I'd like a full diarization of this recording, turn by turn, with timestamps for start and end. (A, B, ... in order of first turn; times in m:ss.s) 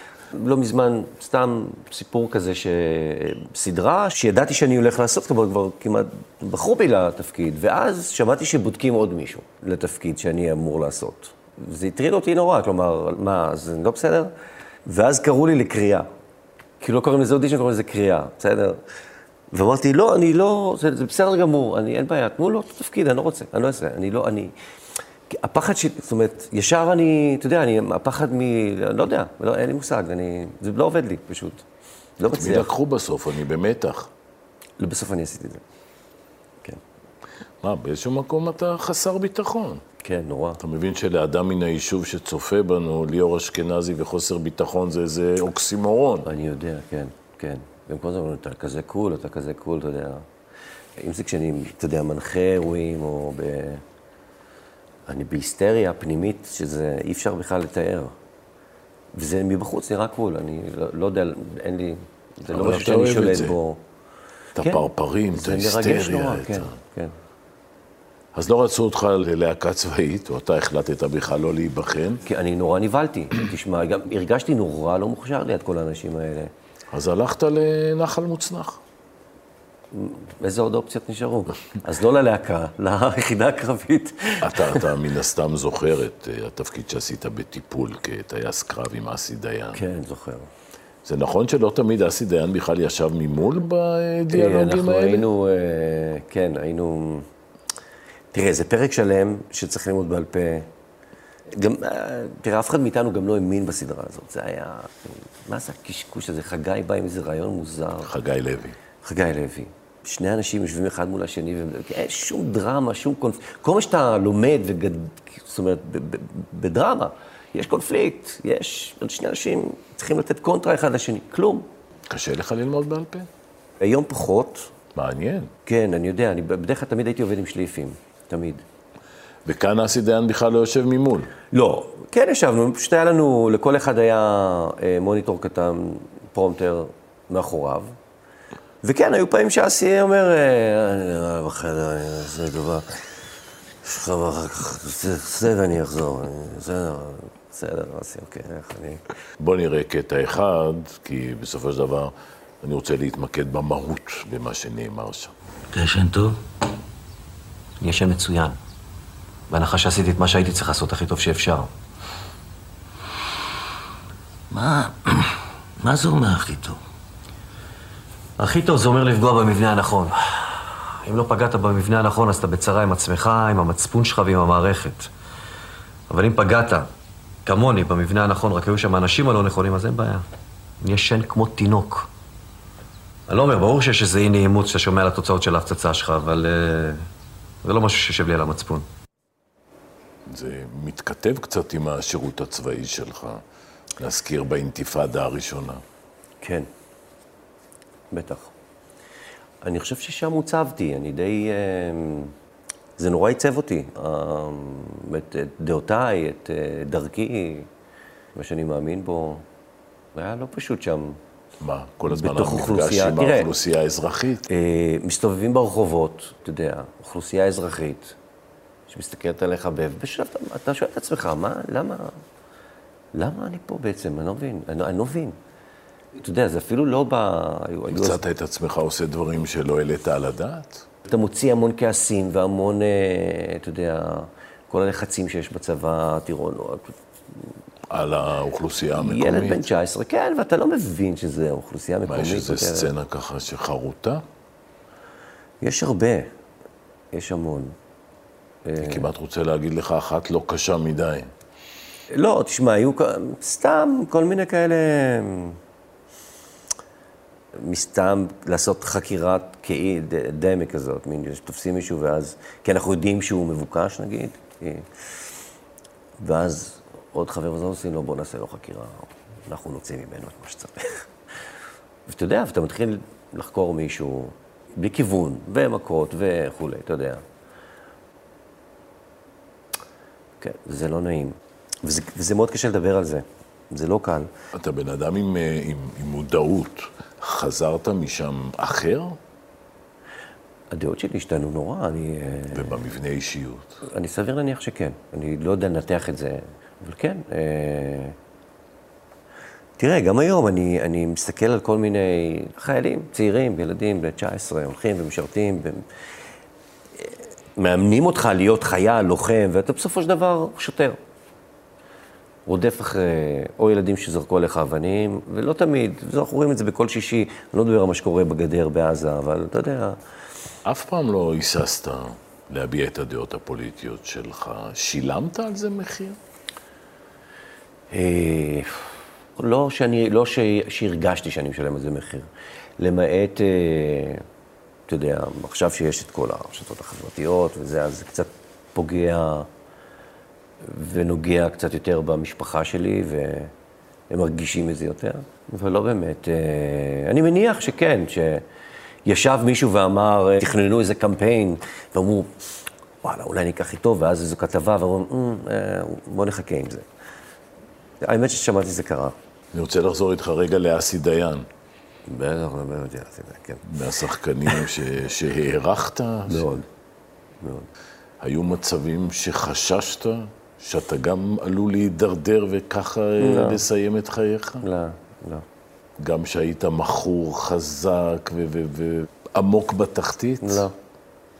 0:00.3-0:14.3 A
0:14.8-0:16.1 A
0:16.8-0:18.8 A
0:19.5-0:24.5 A
0:25.3-0:31.6 A
0:32.2-0:32.7 A
0:32.3-0:34.1 B
0:34.8-0:35.6 A
0:37.6-0:39.8 B
0:40.0-0:40.6 A
0:40.6-0:46.3 B
0:46.2-0:50.3 A
0:51.0-0:53.8 A
0:55.1-0:58.1 A
0:59.1-1:03.8 A
1:02.5-1:03.6 B
1:04.6-1:06.7 B
1:04.6-1:07.1 A
1:08.3-1:12.2 B
1:12.2-1:16.5 A
1:16.9-1:18.8 B
1:19.9-1:24.9 A
1:24.4-1:29.8 B
1:29.7-1:30.5 A
1:31.0-1:35.2 B
1:34.3-1:37.3 A
1:38.3-1:40.7 A
1:41.5-1:48.1 A
1:48.0-1:48.8 B
1:49.0-2:01.6 A
2:02.1-2:03.3 B
2:03.8-2:04.7 A
2:04.9-2:05.5 B
2:05.6-2:08.6 A
2:09.4-2:11.3 B
2:11.5-2:17.9 A
2:18.8-2:22.9 A
2:23.8-2:29.0 A
2:29.4-2:35.3 B
2:35.7-2:36.4 C
2:37.8-2:38.6 C
2:39.5-2:41.7 C
2:44.5-2:46.8 C
2:48.4-2:55.1 C
2:56.1-2:56.9 C
2:57.4-3:00.2 C
3:00.8-3:02.1 C
3:03.3-3:07.1 C
3:07.6-3:08.9 C
3:10.2-3:13.4 B
3:14.0-3:15.8 B
3:16.4-3:16.7 A
3:18.1-3:18.5 A
3:19.6-3:22.3 A
3:23.0-3:27.7 A
3:28.3-3:29.4 A
3:30.1-3:31.2 A
3:31.6-3:34.4 B
3:32.1-3:33.5 A
3:34.5-3:38.2 A
3:38.9-3:42.2 A
3:43.1-3:45.4 A
3:46.2-3:48.2 A
3:47.9-3:50.8 B
3:51.1-3:57.0 A
3:57.9-3:59.7 B
3:59.0-4:02.9 A
4:02.1-4:04.2 B
4:05.6-4:06.3 A
4:07.1-4:07.7 A
4:08.6-4:09.0 A
4:08.8-4:11.3 B
4:12.1-4:15.6 A
4:17.6-4:24.9 A
4:26.2-4:31.1 A
4:32.1-4:37.2 A
4:40.4-4:44.3 A
4:44.5-4:49.2 B
4:50.7-4:52.8 A
4:52.5-4:53.8 B
4:53.8-4:58.2 A
4:59.8-5:05.8 A
5:07.0-5:11.0 A
5:12.4-5:20.0 A
5:20.6-5:26.2 B
5:27.9-5:32.3 A
5:32.8-5:34.2 A
5:34.9-5:39.5 A
5:40.6-5:43.5 A
5:44.1-5:48.4 A
5:49.0-5:52.3 A
5:53.0-5:56.8 A
5:58.0-5:59.1 A
5:59.5-6:01.5 B
6:02.1-6:03.6 A
6:03.6-6:06.5 B
6:06.3-6:06.6 A
6:07.4-6:07.7 A
6:08.2-6:14.6 B
6:13.2-6:13.6 A
6:14.6-6:15.4 A
6:16.0-6:20.6 B
6:20.4-6:20.7 A